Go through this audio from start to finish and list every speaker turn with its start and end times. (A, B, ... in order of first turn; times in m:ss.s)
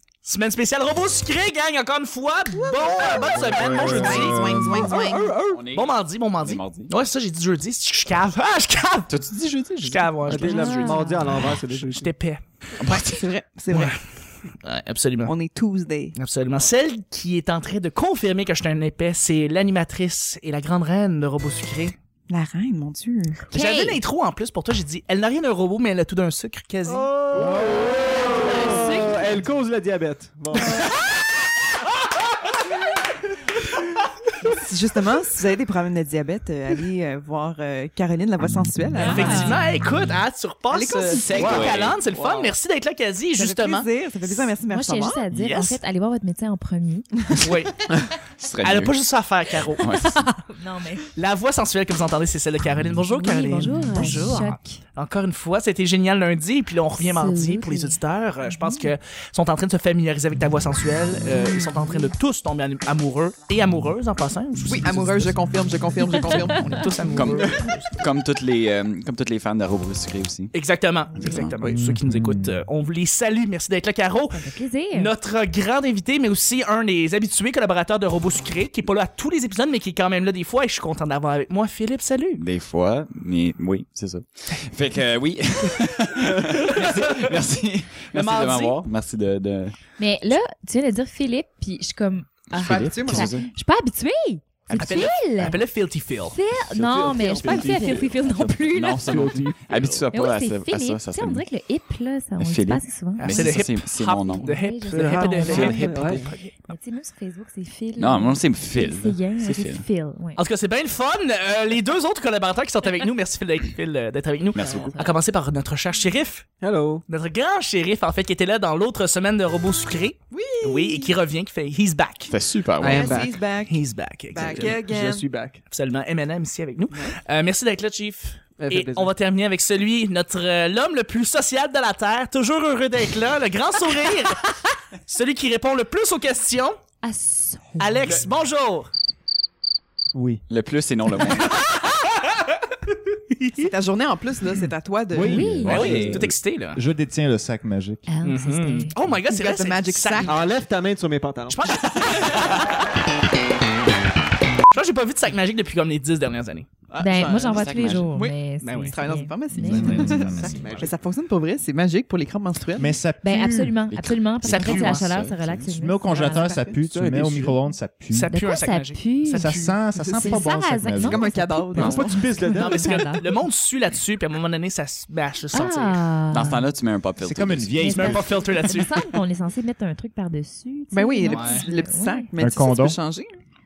0:00.2-0:09.1 A
0:02.7-0:05.4 B
0:03.2-0:04.9 C
0:05.4-0:06.9 D
0:09.1-0:10.7 D
0:09.8-0:10.9 A
0:10.2-0:12.1 E
0:10.4-0:11.5 F
0:11.5-0:12.4 A
0:12.8-0:13.1 D
0:12.8-0:14.0 B
0:13.7-0:14.0 A
0:14.6-0:15.3 A
0:15.2-0:16.1 B
0:16.2-0:22.0 A
0:22.3-0:23.5 B
0:23.5-0:24.0 F
0:23.5-0:27.1 A
0:26.8-0:31.0 E
0:27.3-0:28.3 C
0:28.4-0:29.2 F
0:34.4-0:39.6 B
0:38.5-0:39.1 C
0:39.0-0:39.6 F
0:39.0-0:43.9 A
0:40.7-0:42.5 B
0:41.1-0:42.0 D
0:41.4-0:41.7 E
0:43.4-0:45.2 B
0:44.3-0:47.1 F
0:47.4-0:47.9 A
0:48.4-0:48.9 D
0:48.6-0:49.8 A
0:49.7-0:50.3 D
0:50.0-0:51.0 F
0:51.1-1:05.4 A
0:53.2-0:54.8 F
0:57.0-0:58.9 F
1:04.6-1:07.2 B
1:06.1-1:08.0 A
1:06.7-1:07.2 F
1:07.1-1:10.5 D
1:10.5-1:22.4 A
1:11.2-1:11.6 D
1:11.6-1:12.6 C
1:14.3-1:15.1 F
1:22.4-1:29.8 D
1:26.7-1:27.3 A
1:28.1-1:28.8 A
1:30.0-1:35.6 F
1:32.5-1:33.5 D
1:32.5-1:33.5 B
1:34.7-1:35.1 D
1:34.7-1:36.4 A
1:36.3-1:39.1 F
1:36.7-1:38.3 E
1:38.5-1:41.4 D
1:39.0-1:40.0 E
1:40.1-1:43.6 F
1:42.4-1:46.2 D
1:43.2-1:46.5 A
1:44.3-1:45.9 F
1:44.9-1:46.3 E
1:46.7-1:50.4 F
1:48.0-1:49.8 D
1:50.4-1:56.4 A
1:54.5-1:55.0 D
1:54.7-1:55.1 F
1:56.6-1:57.0 E
1:57.1-2:02.3 A
2:00.3-2:01.1 B
2:02.3-2:03.2 D
2:02.8-2:03.4 E
2:02.8-2:03.8 B
2:03.6-2:04.8 A
2:04.3-2:05.2 B
2:04.5-2:05.6 E
2:05.7-2:14.5 A
2:06.9-2:07.2 B
2:08.6-2:09.1 E
2:15.1-2:16.8 A
2:17.0-2:18.1 F
2:17.8-2:18.9 A
2:20.1-2:20.4 C
2:20.5-2:21.6 D
2:23.6-2:25.6 B
2:25.1-2:28.1 C
2:25.2-2:25.8 F
2:25.6-2:26.8 A
2:25.8-2:26.2 E
2:28.1-2:28.9 F
2:28.2-2:30.4 A
2:29.3-2:30.4 B
2:30.2-2:32.3 E
2:31.5-2:32.8 A
2:34.7-2:36.7 A
2:36.9-2:43.0 B
2:37.0-2:40.2 F
2:38.6-2:38.9 A
2:39.6-2:40.6 C
2:39.8-2:40.2 A
2:40.2-2:40.8 D
2:40.4-2:40.9 E
2:42.8-2:43.7 C
2:43.2-2:46.7 F
2:43.9-2:45.7 D
2:44.4-2:45.1 A
2:45.7-2:48.3 C
2:46.8-2:47.6 E
2:48.1-2:49.8 A
2:48.3-2:53.4 F
2:49.3-2:51.3 C
2:51.0-2:52.2 B
2:51.7-2:53.1 E
2:52.6-2:56.0 A
2:55.5-2:56.6 F
2:56.3-2:58.1 D
2:57.2-2:58.3 C
2:57.8-3:02.3 F
2:57.9-2:59.2 A
3:00.9-3:03.3 B
3:01.3-3:01.6 A
3:02.4-3:03.0 C